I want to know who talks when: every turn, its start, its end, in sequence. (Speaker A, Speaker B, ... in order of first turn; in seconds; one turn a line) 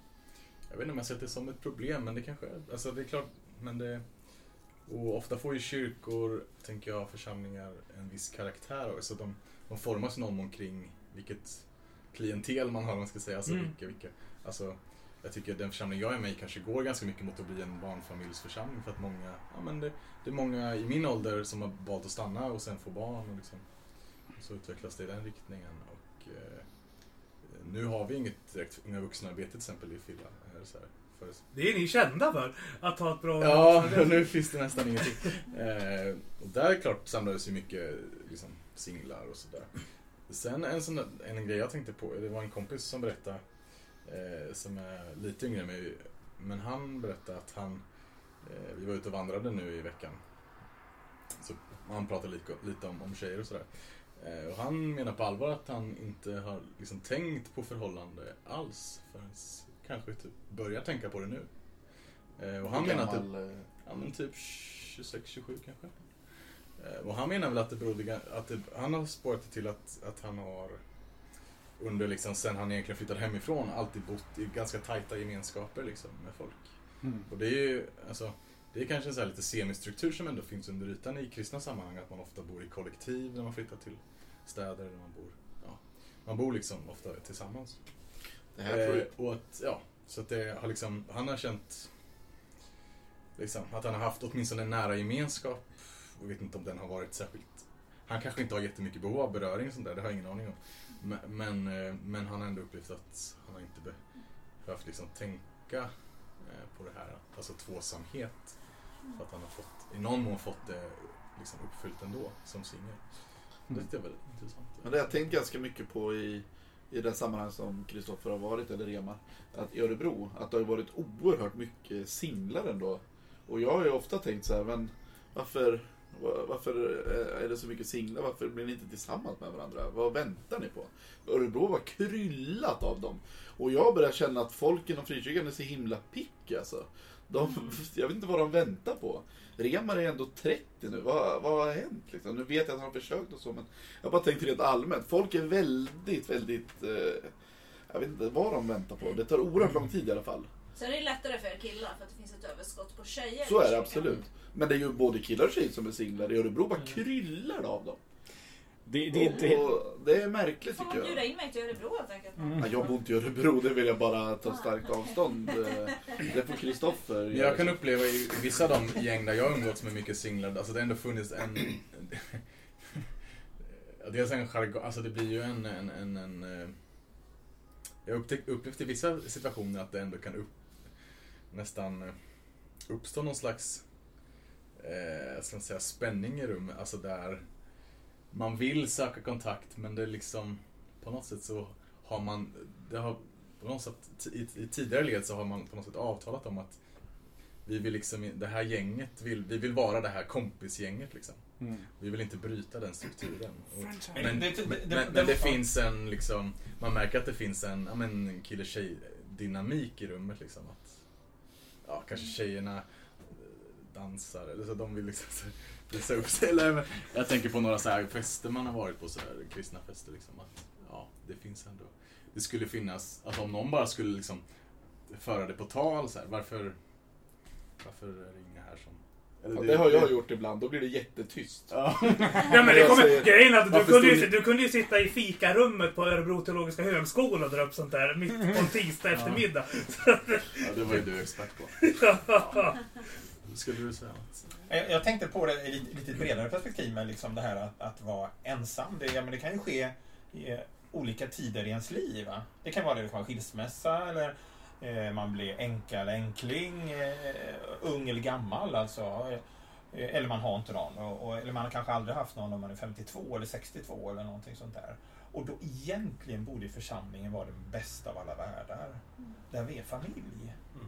Speaker A: 0.7-23.7
Speaker B: 13.5-13.7
Speaker A: 24.3-26.8
Speaker A: 27.4-31.5
Speaker B: 31.5-34.4
Speaker A: 33.4-39.7
Speaker A: 40.3-43.5
Speaker A: 44.0-47.8
Speaker A: 48.4-50.2
Speaker A: 51.4-61.8
Speaker A: 62.4-63.3
Speaker C: 62.6-63.7
Speaker A: 63.8-70.8
Speaker A: 71.8-76.7
Speaker A: 77.2-87.8
Speaker C: 88.5-89.1
Speaker A: 88.7-91.9
Speaker A: 93.4-104.0
Speaker A: 104.6-113.1
Speaker A: 113.7-114.9
Speaker C: 114.8-147.3
Speaker C: 147.9-150.5
Speaker D: 150.8-154.2
Speaker C: 153.4-158.0
Speaker E: 158.9-159.7
Speaker C: 159.1-161.2
Speaker D: 160.8-162.7
Speaker E: 162.4-162.6
Speaker C: 162.6-167.8
Speaker A: 167.3-172.4
Speaker A: 173.7-176.8
Speaker A: 178.1-180.9
Speaker A: 181.5-182.2
Speaker A: 182.8-183.8
Speaker A: 184.8-187.5
Speaker A: 188.3-196.8
Speaker A: 197.6-211.0
Speaker E: 201.6-201.9
Speaker E: 203.8-204.4
Speaker F: 204.1-205.6
Speaker A: 211.8-224.4
Speaker A: 225.1-226.8
Speaker A: 227.8-230.2
Speaker C: 229.5-234.3
Speaker A: 231.7-234.2
Speaker B: 232.3-241.1
Speaker A: 239.1-239.4
Speaker A: 240.6-241.9
Speaker B: 241.8-242.8
Speaker A: 243.5-244.5
Speaker F: 244.7-270.6